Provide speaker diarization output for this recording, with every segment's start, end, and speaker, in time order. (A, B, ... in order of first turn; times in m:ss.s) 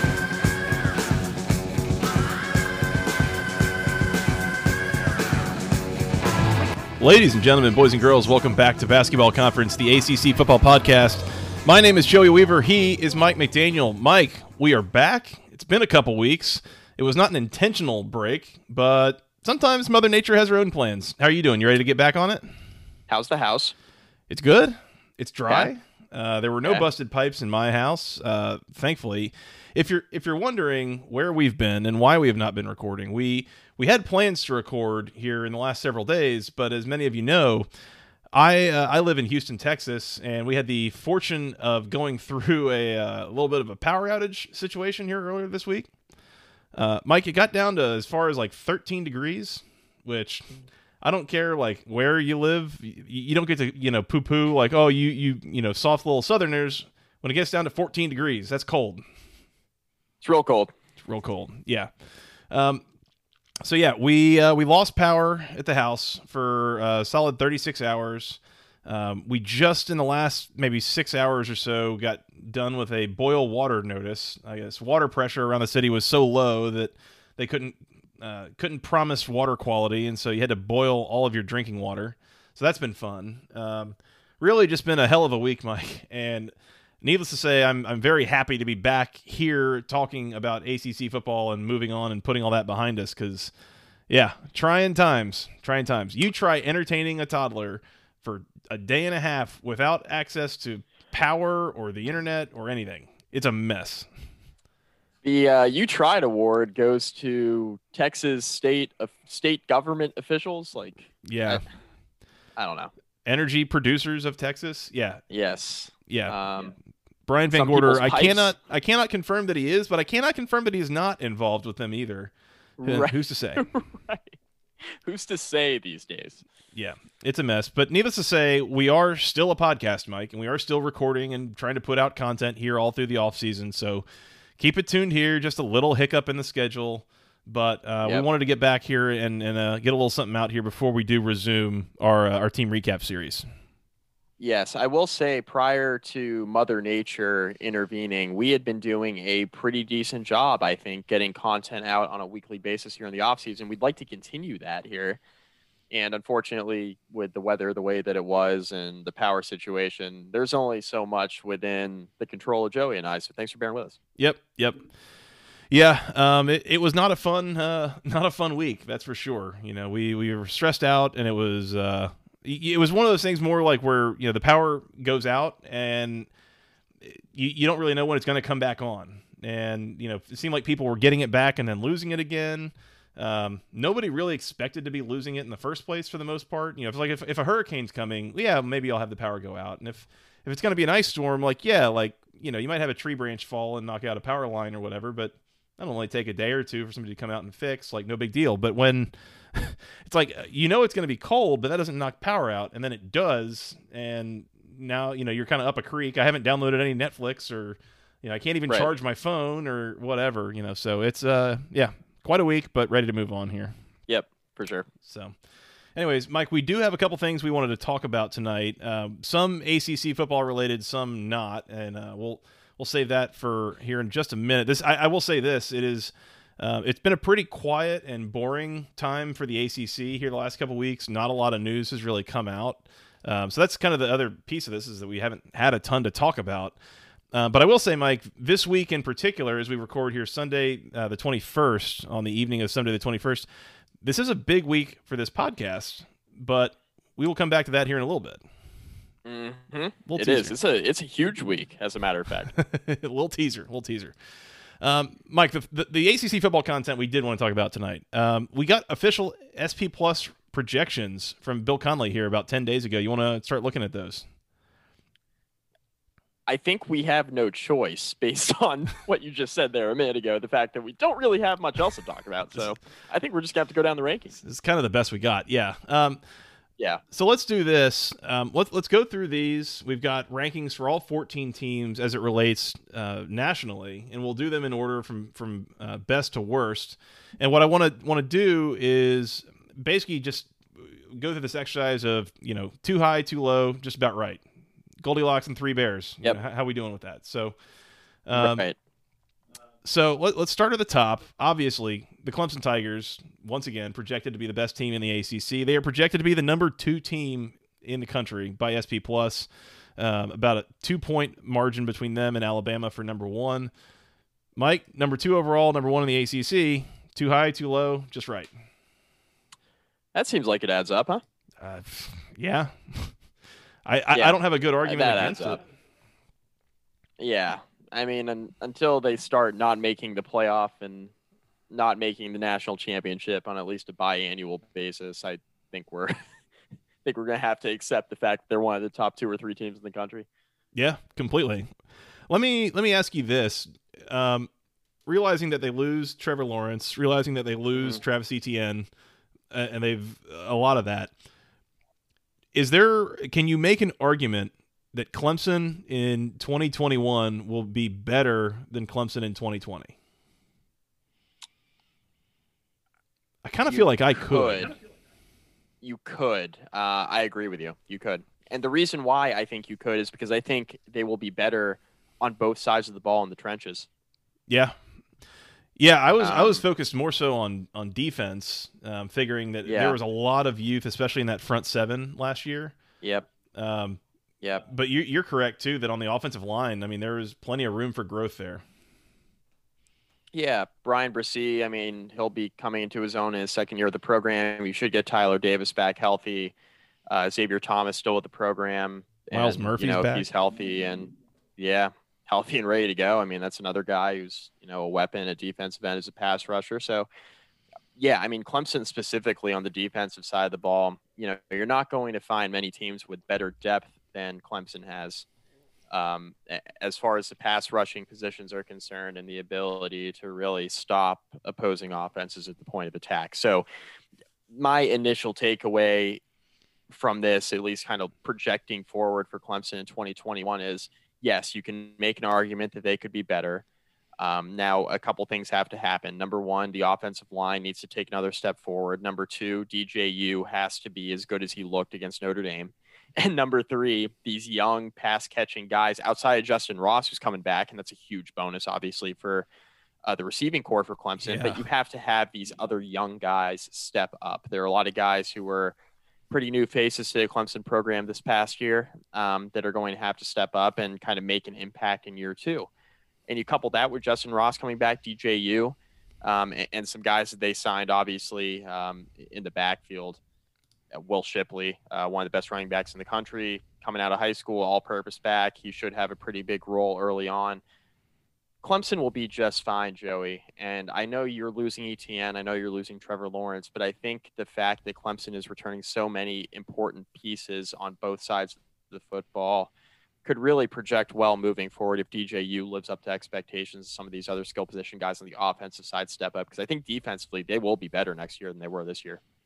0:07.0-0:22.4 A
0:23.1-0:23.7 B
0:24.3-0:37.7 A
0:38.3-0:45.9 A
0:46.7-0:50.5 A
0:51.0-0:59.0 A
1:00.2-1:00.7 B
1:01.0-1:01.9 A
1:02.5-1:02.8 A
1:03.6-1:33.5 A
1:34.1-1:44.1 A
1:45.2-1:51.6 B
1:51.2-1:51.6 A
1:52.6-1:52.9 B
1:53.2-1:55.2 A
1:55.3-1:56.7 B
1:56.1-1:56.4 A
1:57.3-2:02.3 A
1:57.5-1:58.5 B
2:02.8-2:06.4 B
2:02.8-2:03.6 A
2:06.7-2:14.0 A
2:14.6-2:23.5 A
2:24.4-2:35.2 B
2:35.9-2:44.0 B
2:44.2-2:44.8 A
2:45.7-2:56.3 A
2:57.0-3:33.7 A
3:34.1-3:34.9 B
3:35.0-3:35.4 A
3:35.9-3:56.8 A
3:57.3-4:03.5 A
4:04.0-4:08.4 A
4:09.2-4:12.5 B
4:10.0-4:10.5 A
4:12.5-4:14.2 A
4:14.8-4:24.2 A
4:26.5-4:34.4 B
4:34.4-4:36.2 A
4:37.1-4:54.4 A
4:55.0-4:57.6 A
4:58.2-4:58.7 A
4:58.4-4:58.8 B
4:59.8-5:13.7 A
5:14.6-5:18.5 A
5:20.1-5:21.2 B
5:21.6-5:23.2 A
5:23.8-5:25.6 A
5:24.1-5:25.6 B
5:27.2-5:31.1 B
5:31.7-5:36.1 B
5:37.0-5:40.2 B
5:40.7-5:41.7 A
5:42.3-5:44.5 A
5:45.0-5:48.9 A
5:49.5-5:51.1 A
5:52.5-5:59.9 A
6:03.4-6:04.7 A
6:03.6-6:04.7 B
6:05.8-6:13.9 B
6:14.5-6:14.8 A
6:15.8-6:22.8 A
6:16.2-6:16.6 B
6:19.6-6:20.0 B
6:23.0-6:23.2 B
6:23.5-6:24.0 A
6:24.6-6:28.6 A
6:30.3-6:36.5 B
6:37.1-6:47.1 B
6:39.3-6:40.3 A
6:48.0-6:55.2 B
6:55.9-7:03.6 B
7:04.5-7:06.2 B
7:06.9-7:13.6 B
7:14.2-7:29.5 B
7:30.0-7:35.8 B
7:31.2-7:31.6 A
7:36.3-7:42.7 B
7:43.3-7:50.2 B
7:50.9-7:57.6 B
7:58.6-8:09.7 B
8:10.2-8:19.2 B